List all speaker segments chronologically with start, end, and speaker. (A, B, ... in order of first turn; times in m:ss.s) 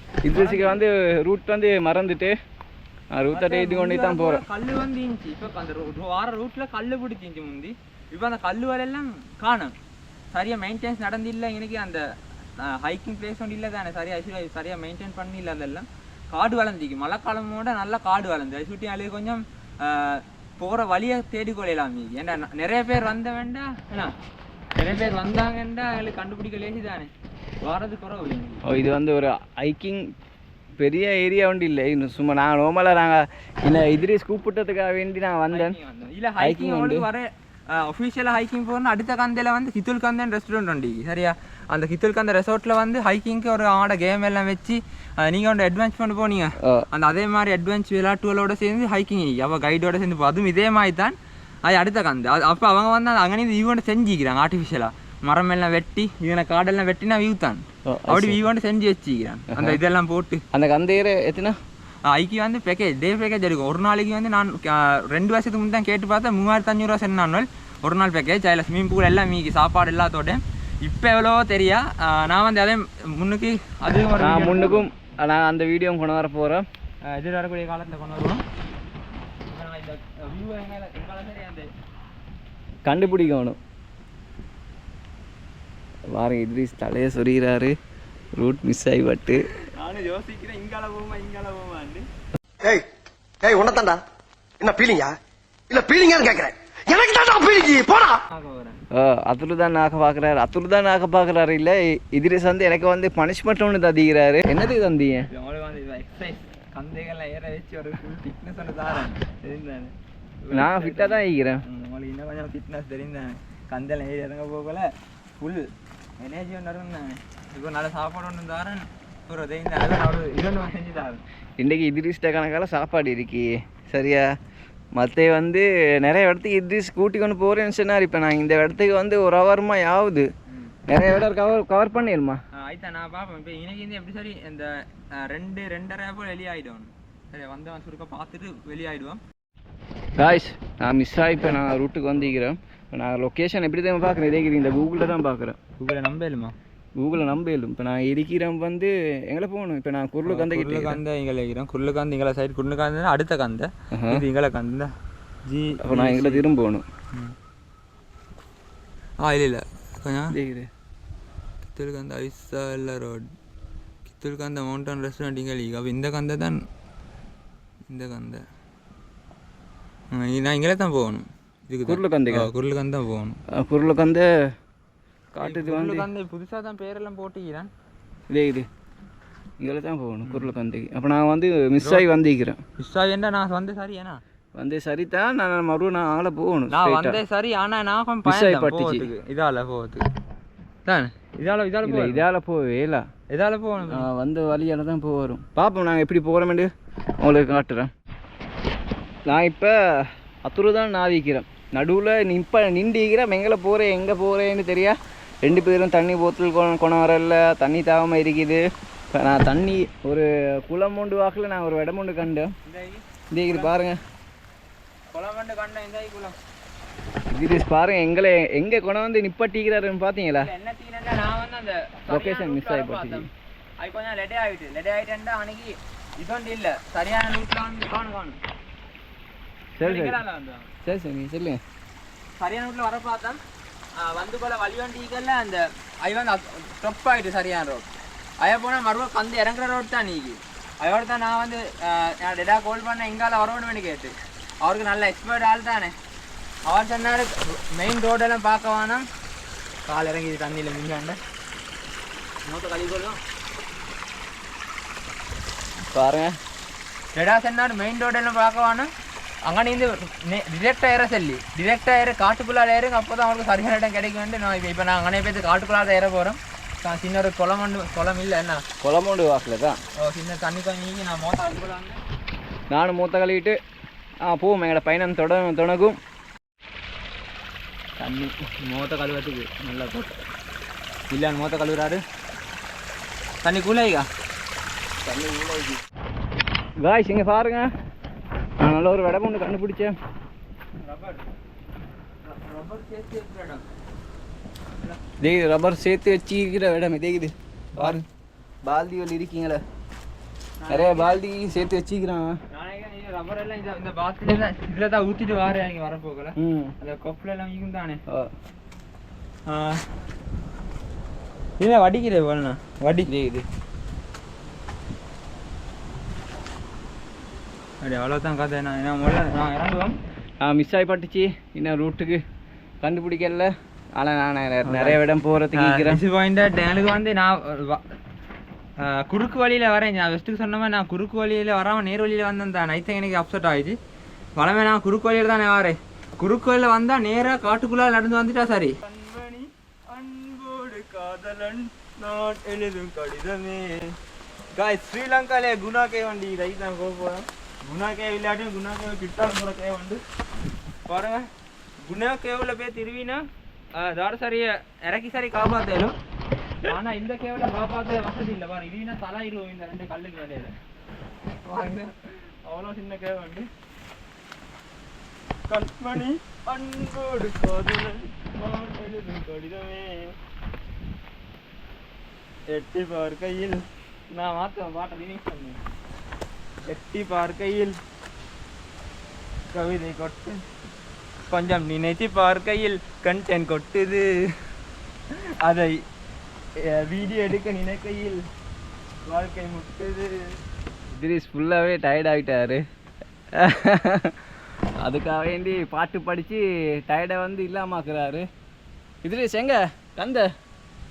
0:00.2-0:02.3 A
0:00.3-0:00.8 B
0:03.2-0:04.4 A
0:03.3-0:09.7 B
0:10.3-0:12.0 B
0:12.6-0:24.1 B
0:24.8-0:27.1 B
0:27.6-0:28.6 B
0:28.6-0:30.1 A
0:30.8-0:35.8 A
0:35.5-1:00.4 B
0:36.4-0:37.1 A
0:46.6-0:46.9 A
0:57.9-0:58.4 A
0:59.5-0:59.8 A
1:00.5-1:01.6 A
1:02.1-1:14.9 B
1:14.2-1:16.6 A
1:17.0-1:18.4 B
1:19.5-1:21.7 B
1:22.9-1:23.6 A
1:22.9-1:23.6 B
1:26.1-1:27.7 A
1:28.4-1:29.5 A
1:29.6-1:32.1 B
1:33.4-1:34.0 C
1:34.6-1:35.2 C
1:35.7-1:38.2 C
1:38.3-1:38.8 B
1:38.9-1:45.3 A
1:45.3-2:01.2 B
1:50.5-1:51.6 A
2:01.6-2:04.3 A
2:05.0-2:10.3 A
2:10.5-2:10.7 B
2:10.9-2:12.4 A
2:12.5-2:19.2 B
2:20.2-2:25.6 A
2:25.8-2:26.6 B
2:27.0-2:31.0 A
2:30.2-2:34.9 B
2:33.9-2:34.2 A
2:35.5-2:36.5 B
2:35.8-2:36.8 A
2:39.2-2:40.4 B
2:40.3-2:40.7 A
2:41.7-2:43.3 B
2:44.1-2:46.6 B
2:47.9-2:48.4 B
2:50.1-2:53.4 B
2:51.9-2:52.5 A
2:53.5-2:54.3 A
2:55.3-2:56.1 A
2:55.4-2:57.7 B
2:58.3-2:58.7 A
2:59.6-3:02.6 A
3:00.2-3:00.5 B
3:01.8-3:02.1 B
3:02.8-3:04.2 B
3:04.6-3:07.2 A
3:06.7-3:10.1 B
3:08.3-3:09.1 A
3:10.8-3:12.3 B
3:11.8-3:13.1 A
3:13.3-3:14.1 B
3:13.8-3:17.9 A
3:19.3-3:28.6 A
3:29.1-3:32.5 A
3:32.6-3:33.7 B
3:33.3-3:34.0 A
3:35.1-3:36.4 B
3:37.3-3:40.5 A
3:40.4-3:43.3 B
3:42.1-3:43.3 A
3:43.8-3:48.4 B
3:49.8-3:50.2 A
3:49.8-3:50.7 B
3:50.8-3:51.6 A
3:52.4-3:53.4 B
3:54.0-3:57.9 B
3:58.4-4:06.0 B
4:06.7-4:09.0 B
4:09.9-4:11.2 B
4:12.5-4:13.2 B
4:15.9-4:16.4 A
4:17.2-4:18.9 B
4:19.5-4:28.6 B
4:28.8-4:29.8 A
4:30.0-4:32.0 B
4:32.7-4:33.6 A
4:34.2-4:36.0 A
4:38.0-4:40.2 B
4:41.1-4:42.0 B
4:43.4-4:44.1 B
4:45.1-4:45.8 A
4:46.8-4:47.7 A
4:48.6-4:50.0 A
4:50.8-4:51.2 B
4:52.2-4:53.6 B
4:55.2-4:58.0 A
4:57.8-4:58.0 B
4:58.6-4:59.6 A
5:00.6-5:01.2 B
5:00.7-5:02.4 A
5:02.5-5:08.0 B
5:06.4-5:06.7 A
5:09.5-5:09.8 B
5:11.6-5:13.1 B
5:13.1-5:13.4 A
5:17.8-5:20.0 B
5:20.4-5:22.2 A
5:22.8-5:26.0 A
5:24.6-5:25.0 B
5:25.5-5:27.8 B
5:28.8-5:33.8 B
5:34.4-5:44.0 B
5:44.6-5:50.0 B
5:50.9-5:51.3 B
5:51.9-5:56.0 B
5:56.6-6:00.6 B
6:01.5-6:03.5 B
6:05.5-6:10.2 B
6:12.5-6:15.6 B
6:16.7-6:17.8 B
6:19.5-6:20.4 B
6:21.3-6:24.1 B
6:25.1-6:25.8 B
6:26.6-6:28.2 B
6:29.1-6:30.3 B
6:31.0-6:32.6 A
6:33.3-6:34.2 A
6:34.8-6:38.3 A
6:39.0-6:40.3 A